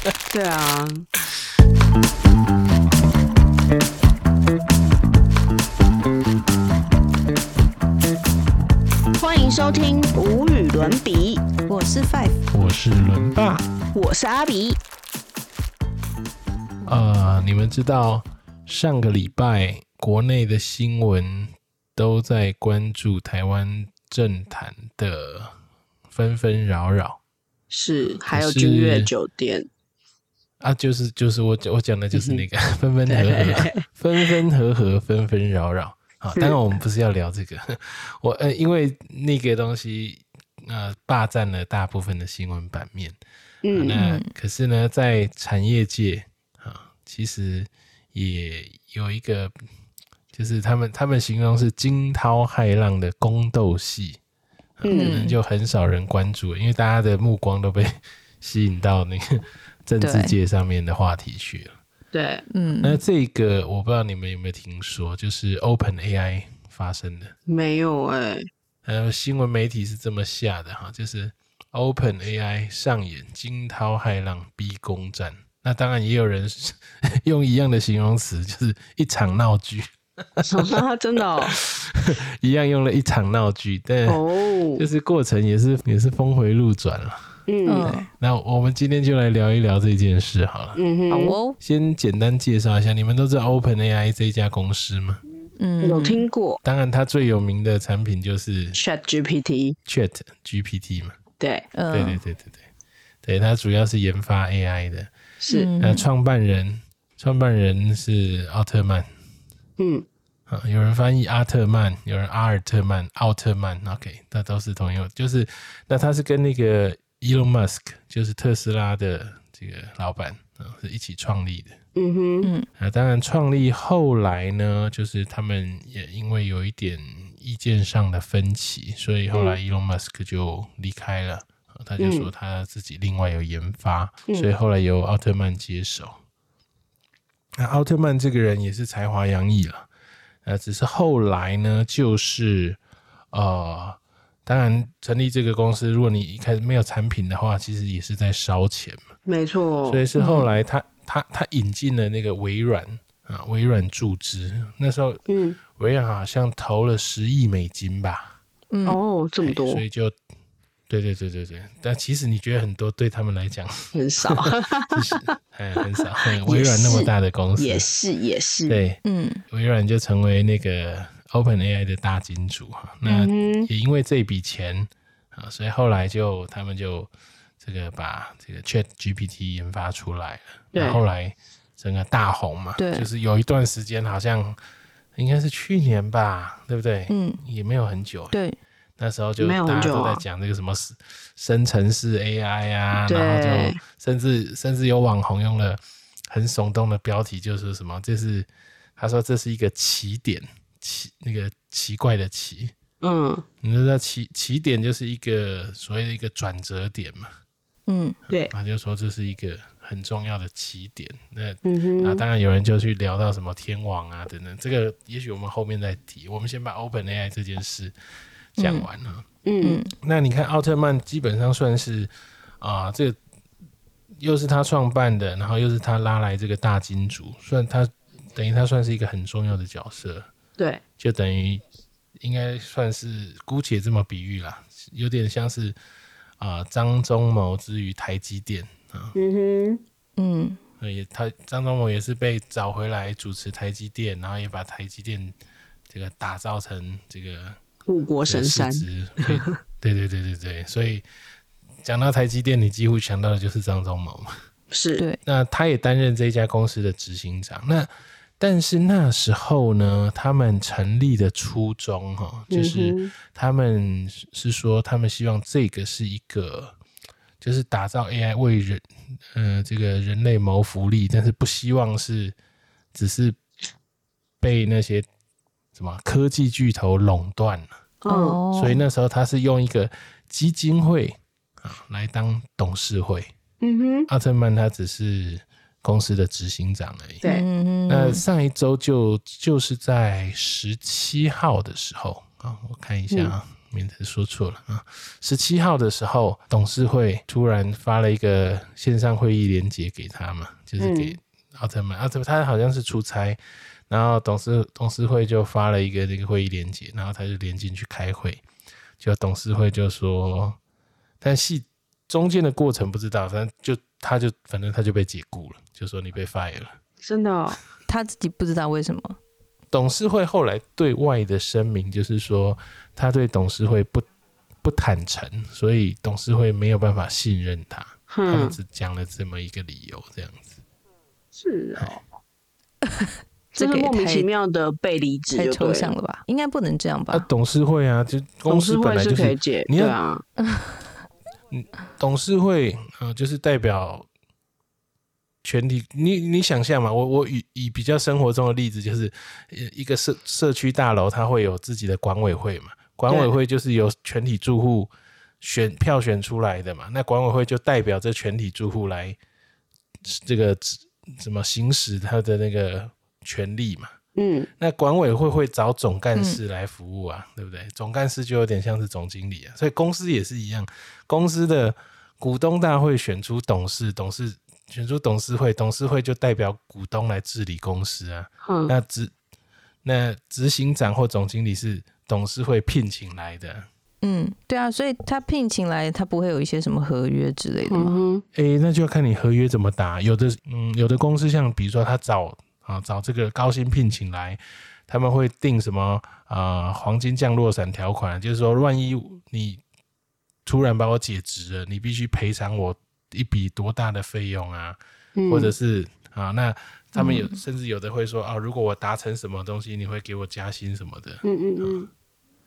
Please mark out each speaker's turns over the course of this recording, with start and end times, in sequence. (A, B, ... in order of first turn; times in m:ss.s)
0:00.3-0:01.0 A
0:09.1-0:11.5 A
0:11.6-0:12.4 B
0:12.5-0:13.6 C
0:13.9-0:14.8 A
0:16.8-0:25.5 C
0:26.1-0:27.2 C
0:27.7-0:29.7 A
0:28.3-0:29.1 C
0:30.6-0:43.2 C
0:32.1-0:32.4 A
0:33.1-0:34.3 A
0:36.3-0:36.6 A
0:43.6-0:44.0 A
0:43.7-0:49.5 C
0:44.0-0:44.3 B
0:50.3-0:54.2 C
0:54.8-1:01.7 C
0:54.8-0:55.2 A
0:54.9-0:55.4 B
1:00.0-1:00.4 B
1:02.1-1:02.4 A
1:02.5-1:03.0 B
1:02.8-1:07.3 C
1:07.5-1:08.5 A
1:08.8-1:20.8 C
1:20.5-1:21.6 A
1:21.4-1:24.2 C
1:24.0-1:24.8 A
1:24.7-1:27.3 C
1:27.5-1:28.0 A
1:27.6-1:28.1 B
1:27.8-1:30.8 C
1:30.8-1:31.4 A
1:31.1-1:31.6 B
1:31.6-1:35.2 C
1:35.6-1:36.2 B
1:35.8-1:36.6 A
1:36.6-1:38.8 C
1:38.7-1:39.8 A
1:39.9-1:41.2 C
1:41.4-1:41.7 A
1:41.7-1:42.2 B
1:41.9-1:42.6 C
1:43.2-1:45.1 C
1:45.4-1:45.7 A
1:45.5-1:46.0 B
1:45.8-1:49.1 C
1:49.8-1:50.0 A
1:50.5-2:01.8 C
2:01.9-2:02.5 A
2:02.8-2:16.2 C
2:12.0-2:12.3 A
2:17.6-2:19.9 C
2:20.4-2:22.8 C
2:23.3-2:29.0 C
2:29.2-2:30.1 A
2:29.8-2:35.2 C
2:30.2-2:30.5 B
2:35.3-2:35.6 A
2:35.8-2:38.3 C
2:38.7-2:39.0 B
2:38.8-2:39.8 A
2:39.4-2:40.1 C
2:40.9-2:47.9 C
2:43.9-2:45.3 A
2:46.2-2:48.8 A
2:48.7-2:57.1 C
2:49.0-2:49.4 B
2:53.0-2:53.7 A
2:57.6-3:04.6 C
3:00.7-3:01.0 A
3:02.8-3:03.1 B
3:05.2-3:08.4 C
3:07.1-3:07.4 B
3:08.3-3:08.6 B
3:09.0-3:22.7 C
3:09.4-3:10.2 A
3:13.0-3:13.8 A
3:23.0-3:23.4 A
3:23.6-3:27.3 C
3:27.9-3:28.2 B
3:28.5-3:37.9 C
3:31.6-3:32.2 A
3:38.6-3:39.2 C
3:38.6-3:38.9 B
3:39.4-3:39.8 A
3:39.6-3:39.9 B
3:40.0-3:42.1 C
3:42.6-3:43.2 C
3:44.2-3:50.3 C
3:51.0-3:51.6 C
3:52.2-3:55.8 C
3:56.4-3:59.2 C
3:59.2-3:59.8 A
4:00.2-4:00.6 B
4:00.8-4:05.3 C
4:05.9-4:07.6 C
4:07.9-4:09.6 A
4:08.2-4:11.0 C
4:11.8-4:14.3 C
4:14.7-4:15.0 A
4:15.2-4:17.9 C
4:18.4-4:26.7 C
4:22.5-4:23.1 A
4:27.4-4:32.4 C
4:32.9-4:33.4 C
4:34.4-4:35.1 C
4:35.7-4:37.7 C
4:38.0-4:38.4 A
4:38.1-4:38.8 B
4:38.5-4:43.3 C
4:43.6-4:44.1 A
4:44.1-4:47.2 C
4:47.2-4:48.2 B
4:47.9-5:08.4 C
5:00.8-5:01.2 A
5:09.0-5:10.6 C
5:11.2-5:16.8 C
5:17.0-5:17.6 A
5:17.9-5:19.2 B
5:19.7-5:24.0 C
5:24.6-5:30.6 C
5:28.1-5:28.6 A
5:31.3-5:32.0 A
5:32.9-5:34.3 B
5:33.5-5:35.9 A
5:35.3-5:37.3 B
5:37.1-5:40.0 C
5:38.5-5:40.2 A
5:40.4-5:40.8 B
5:41.5-5:44.1 C
5:45.4-5:59.2 C
6:00.0-6:03.9 C
6:04.2-6:04.5 A
6:04.6-6:19.1 C
6:06.1-6:06.4 B
6:18.4-6:18.7 A
6:19.8-6:23.7 C
6:24.0-6:28.0 B
6:27.6-6:28.2 A
6:28.3-6:39.6 C
6:40.4-6:51.9 C
6:45.2-6:45.5 A
6:47.0-6:47.3 B
6:51.2-6:51.9 A